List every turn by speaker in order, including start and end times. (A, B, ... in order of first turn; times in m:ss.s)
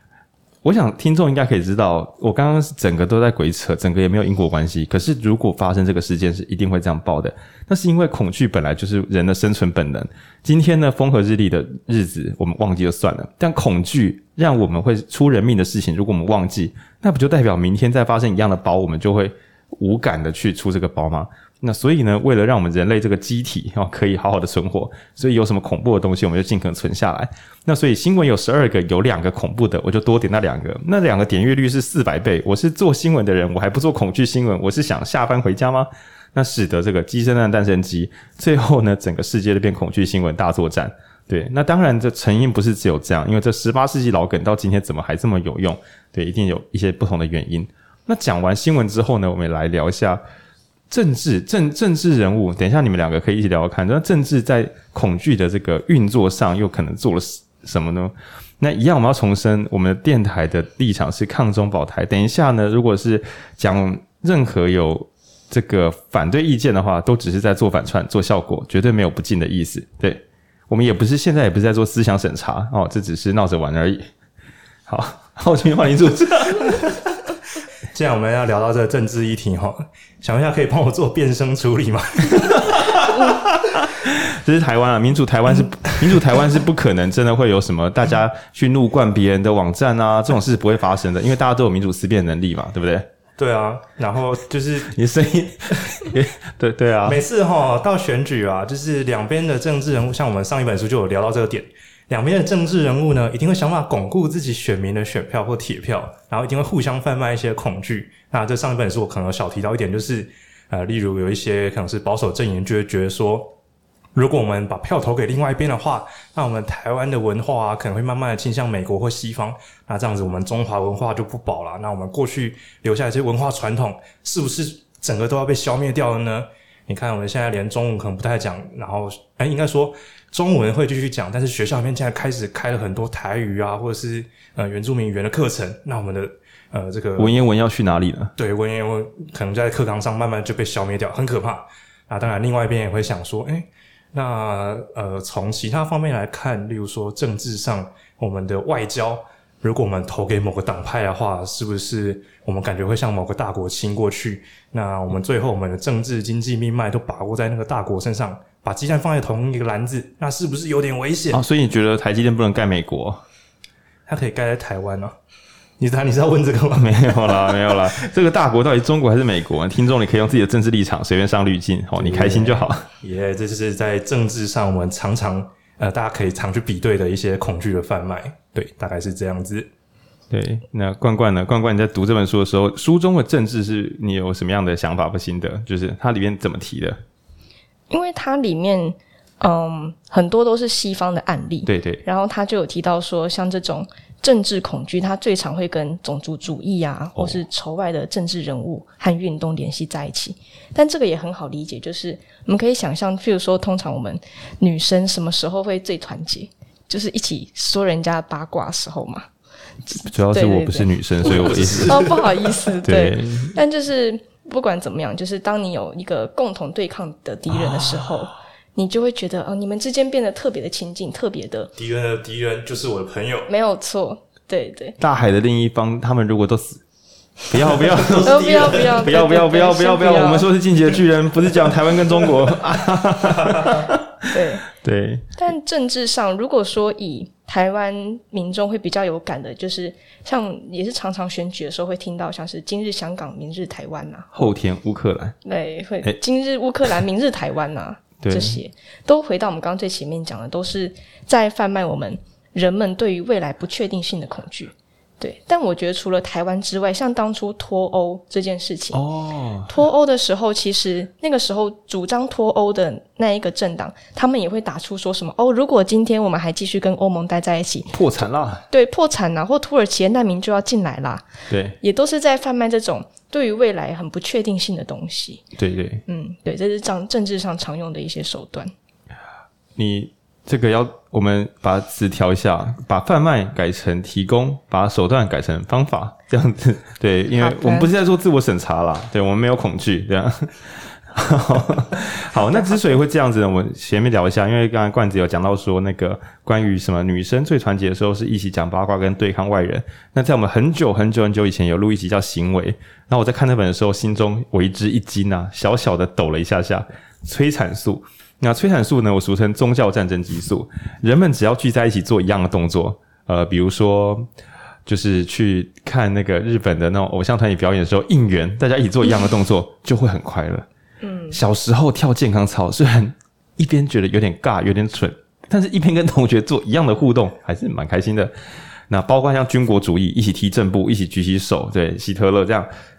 0:00.6-0:50.2 A
0:50.9-1:14.0 A
1:14.9-1:17.0 A
1:17.9-1:22.9 B
1:22.3-1:33.1 A
1:33.4-1:34.9 B
1:34.9-1:37.2 A
1:37.0-1:53.6 B
1:54.1-2:17.4 B
2:17.2-2:18.3 A
2:18.4-2:41.4 B
2:41.3-2:43.2 A
2:44.1-2:45.1 B
2:45.8-2:47.8 B
2:46.8-2:52.9 A
2:52.0-2:59.7 B
3:00.3-3:07.0 A
3:07.9-3:29.2 C
3:11.6-3:12.0 A
3:17.1-3:17.4 A
3:29.9-3:30.9 C
3:30.0-3:32.0 A
3:31.2-3:32.3 B
3:31.9-3:41.7 C
3:32.8-3:33.5 A
3:41.8-3:43.5 B
3:43.5-3:45.0 C
3:45.0-3:46.8 A
3:47.5-3:55.2 A
3:47.9-3:49.0 B
3:48.2-3:50.5 C
3:54.3-3:54.6 C
3:55.4-4:04.5 C
4:04.3-4:05.4 A
4:05.4-4:19.0 C
4:08.2-4:08.6 A
4:18.9-4:19.7 A
4:19.7-4:28.0 C
4:27.9-4:28.6 A
4:28.7-4:31.2 C
4:31.5-4:31.8 A
4:31.8-4:35.4 C
4:35.6-4:36.0 A
4:36.1-4:38.7 C
4:39.8-5:14.3 A
4:47.4-4:47.9 C
4:52.4-4:53.0 C
5:14.9-5:20.6 A
5:21.0-5:21.4 C
5:21.3-5:28.3 A
5:28.9-5:32.7 A